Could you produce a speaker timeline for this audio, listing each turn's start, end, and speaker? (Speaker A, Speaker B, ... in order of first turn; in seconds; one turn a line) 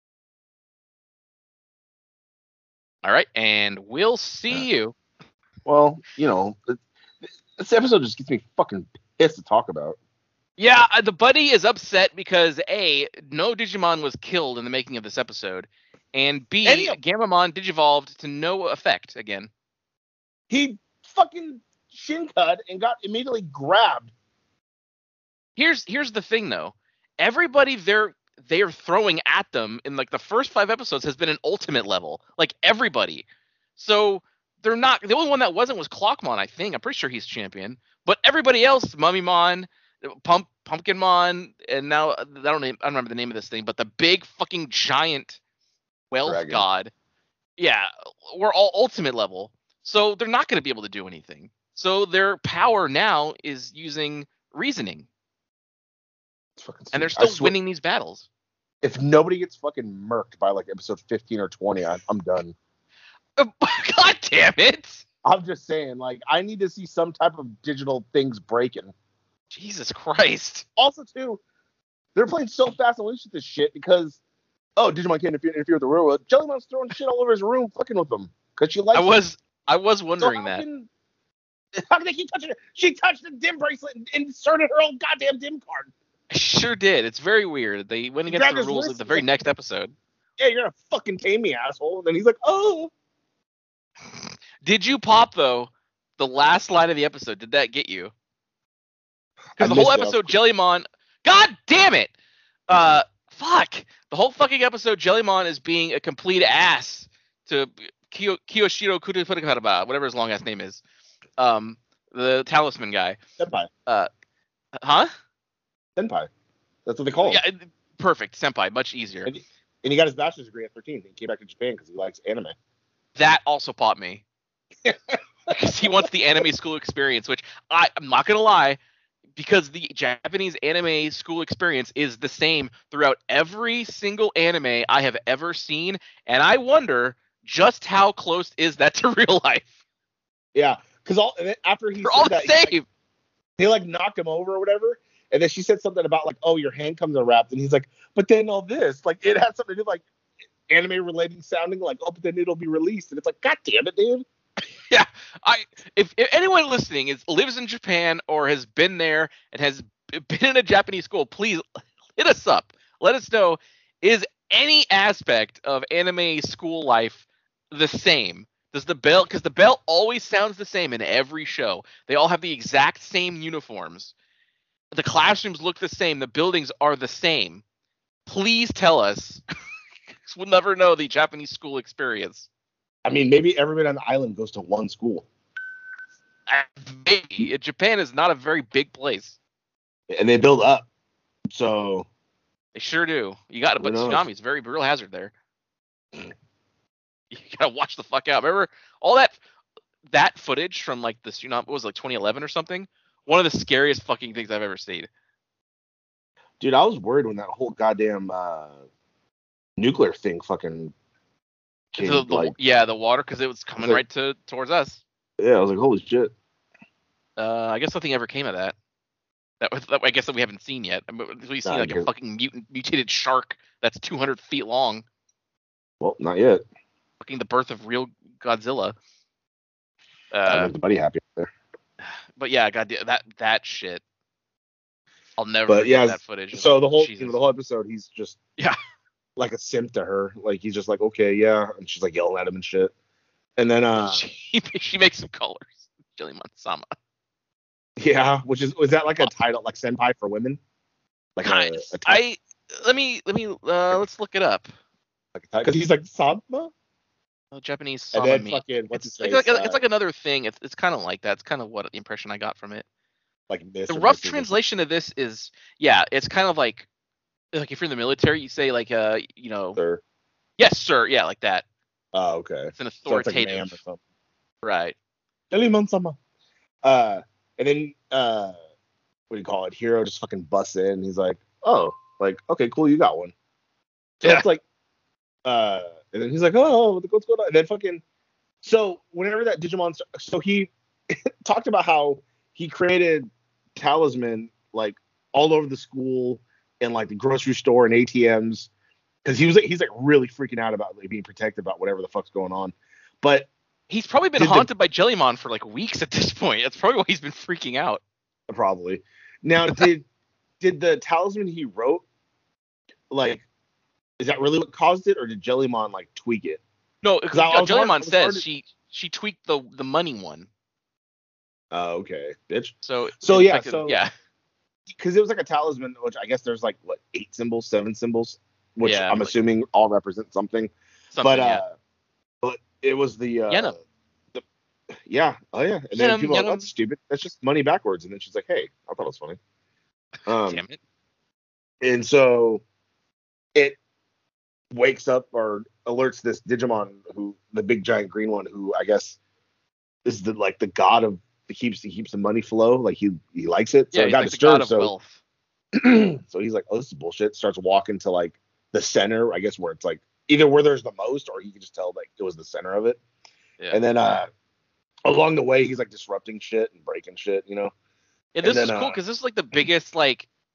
Speaker A: 3.0-5.0
Speaker B: 5.6-10.0
Speaker A: 10.6-19.5
Speaker B: 16.6-17.0
Speaker B: 20.5-24.1
Speaker A: 25.6-33.2
Speaker A: 33.8-45.4
Speaker A: 46.1-46.9
Speaker B: 46.2-46.6
Speaker A: 47.6-55.0
Speaker B: 56.6-57.5
Speaker A: 56.9-58.3
Speaker B: 58.8-62.5
Speaker A: 63.4-65.0
Speaker B: 65.2-68.9
Speaker A: 69.5-70.7
Speaker B: 70.8-71.4
Speaker B: 72.1-74.2
Speaker B: 74.8-79.1
Speaker A: 78.9-80.6
Speaker B: 80.2-80.9
Speaker B: 81.8-85.9
Speaker A: 86.3-89.9
Speaker B: 88.3-89.3
Speaker B: 90.4-92.9
Speaker A: 94.1-98.1
Speaker B: 99.5-100.3
Speaker A: 99.6-102.1
Speaker A: 102.7-110.8
Speaker A: 111.4-113.2
Speaker B: 113.4-113.7
Speaker A: 114.8-115.1
Speaker B: 116.0-116.3
Speaker B: 116.8-117.4
Speaker A: 117.2-119.3
Speaker B: 119.3-122.5
Speaker A: 123.2-124.2
Speaker B: 124.8-125.2
Speaker A: 125.5-128.8
Speaker A: 129.3-139.7
Speaker B: 140.5-142.8
Speaker A: 142.0-142.8
Speaker B: 143.6-150.0
Speaker B: 150.7-154.2
Speaker A: 154.9-161.6
Speaker A: 162.2-174.1
Speaker A: 174.9-177.6
Speaker A: 178.3-179.4
Speaker A: 180.2-182.5
Speaker B: 183.0-185.3
Speaker A: 186.5-189.4
Speaker B: 190.1-190.9
Speaker B: 191.5-192.1
Speaker A: 192.7-195.3
Speaker B: 193.8-194.2
Speaker A: 197.3-199.4
Speaker A: 200.1-205.1
Speaker B: 206.6-208.8
Speaker B: 209.8-210.9
Speaker B: 211.9-212.5
Speaker A: 212.0-215.0
Speaker B: 215.4-216.3
Speaker A: 217.4-218.7
Speaker A: 219.6-225.0
Speaker B: 221.6-222.1
Speaker B: 226.0-226.6
Speaker A: 227.2-228.9
Speaker A: 230.3-230.7
Speaker B: 230.5-231.5
Speaker A: 232.0-234.0
Speaker A: 235.4-237.4
Speaker B: 235.7-238.4
Speaker B: 239.4-242.9
Speaker B: 243.6-244.2
Speaker A: 244.0-246.9
Speaker B: 248.0-250.6
Speaker B: 251.3-252.2
Speaker A: 251.4-254.7
Speaker B: 255.3-256.7
Speaker A: 257.5-262.8
Speaker B: 258.1-259.8
Speaker B: 263.5-264.6
Speaker A: 263.9-266.9
Speaker A: 267.5-269.8
Speaker B: 269.8-270.0
Speaker A: 270.6-271.6
Speaker B: 272.1-274.0
Speaker A: 272.7-273.8
Speaker A: 274.6-274.9
Speaker B: 275.5-276.2
Speaker B: 276.8-278.6
Speaker B: 279.3-283.3
Speaker B: 284.2-284.6
Speaker B: 285.4-288.0
Speaker B: 288.6-298.7
Speaker B: 299.2-303.5
Speaker A: 303.9-308.0
Speaker B: 304.4-304.7
Speaker B: 308.5-310.1
Speaker B: 310.6-312.0
Speaker B: 313.1-313.4
Speaker B: 314.2-316.6
Speaker A: 317.0-320.5
Speaker B: 317.3-318.4
Speaker B: 321.7-324.0
Speaker A: 322.8-324.1
Speaker B: 324.9-330.7
Speaker A: 328.8-329.3
Speaker A: 331.1-331.6
Speaker B: 331.2-331.7
Speaker B: 332.4-333.8
Speaker A: 333.5-333.7
Speaker B: 335.0-339.4
Speaker A: 335.9-336.7
Speaker B: 340.3-340.6
Speaker A: 340.4-340.8
Speaker B: 341.8-342.6
Speaker B: 344.7-349.2
Speaker B: 350.0-354.9
Speaker A: 353.9-355.2
Speaker B: 355.8-363.0
Speaker B: 363.7-364.3
Speaker B: 365.0-367.7
Speaker A: 368.3-370.3
Speaker B: 368.4-369.0